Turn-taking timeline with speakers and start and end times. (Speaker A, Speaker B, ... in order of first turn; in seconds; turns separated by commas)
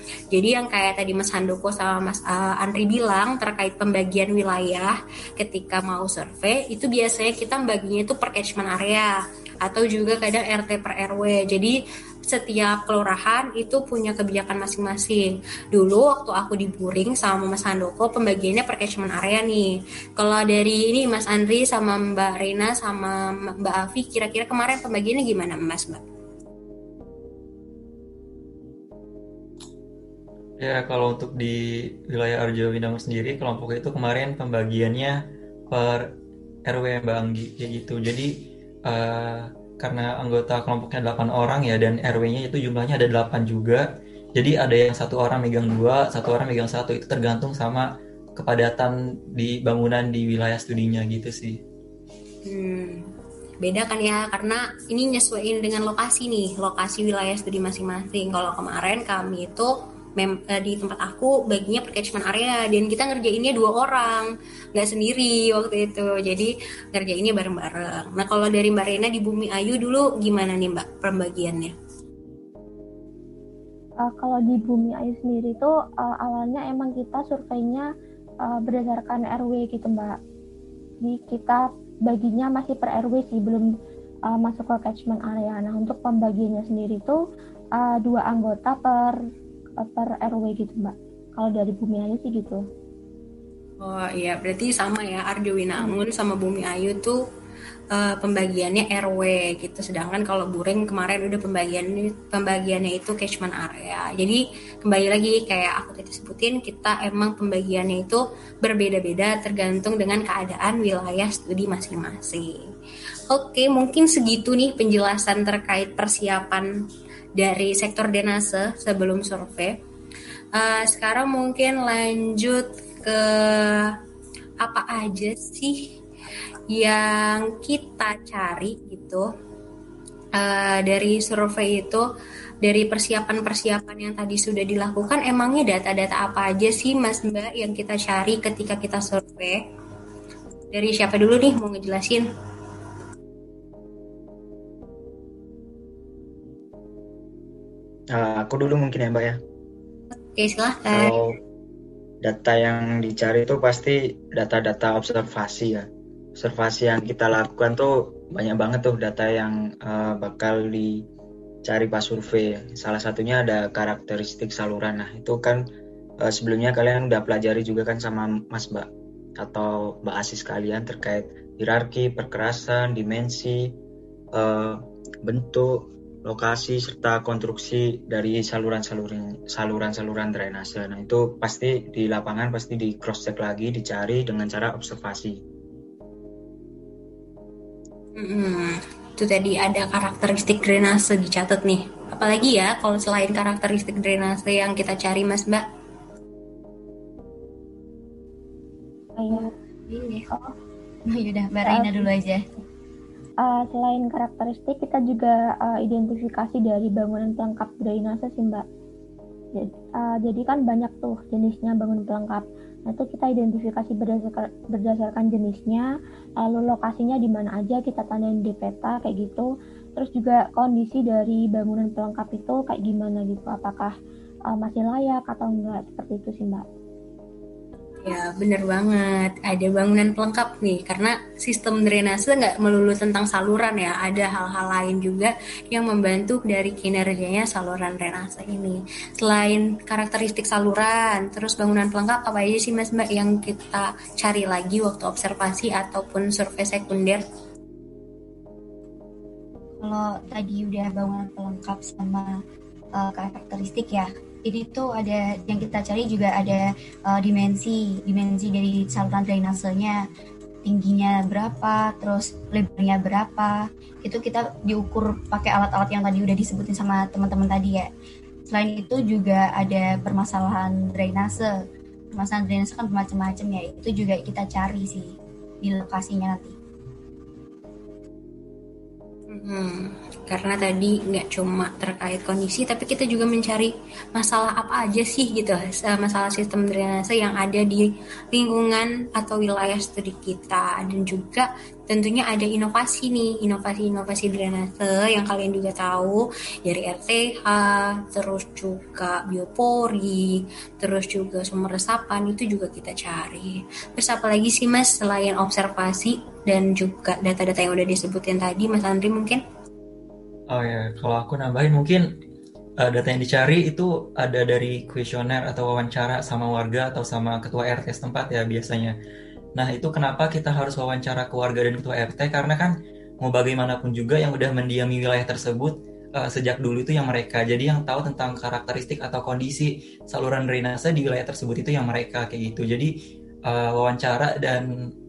Speaker A: 0.3-26.0, Speaker B: 30.6-35.2, Speaker B: 35.7-36.1, Speaker B: 36.7-38.3, Speaker B: 38.9-51.6, Speaker A: 52.5-53.0, Speaker A: 53.6-71.7, Speaker C: 74.0-77.9, Speaker C: 78.5-80.1, Speaker C: 81.0-83.7, Speaker C: 84.3-87.2, Speaker C: 87.8-89.2, Speaker C: 89.8-92.6, Speaker A: 93.8-97.2, Speaker A: 97.9-112.6, Speaker A: 113.3-116.8, Speaker A: 117.4-119.8, Speaker A: 120.6-124.0, Speaker A: 124.6-125.9, Speaker A: 126.7-129.3, Speaker A: 130.4-132.1, Speaker A: 132.6-139.6, Speaker A: 140.7-142.3, Speaker D: 148.1-149.4, Speaker A: 150.4-151.1, Speaker D: 150.9-151.4, Speaker D: 152.2-161.0, Speaker D: 161.6-165.6, Speaker D: 166.2-173.8, Speaker D: 174.4-185.4, Speaker A: 188.2-195.6, Speaker C: 199.2-199.5, Speaker E: 199.3-200.3, Speaker E: 201.1-202.4, Speaker C: 201.6-202.1, Speaker C: 203.4-208.6, Speaker C: 209.6-215.9, Speaker C: 216.4-219.5, Speaker C: 220.0-223.9, Speaker C: 224.5-226.7, Speaker A: 228.0-247.2, Speaker E: 249.8-252.4, Speaker E: 253.0-260.0, Speaker E: 260.6-267.9, Speaker E: 268.5-271.5, Speaker E: 272.1-276.6, Speaker A: 279.3-309.4, Speaker B: 310.5-312.0, Speaker B: 312.8-318.9, Speaker B: 319.6-332.9, Speaker B: 333.5-334.7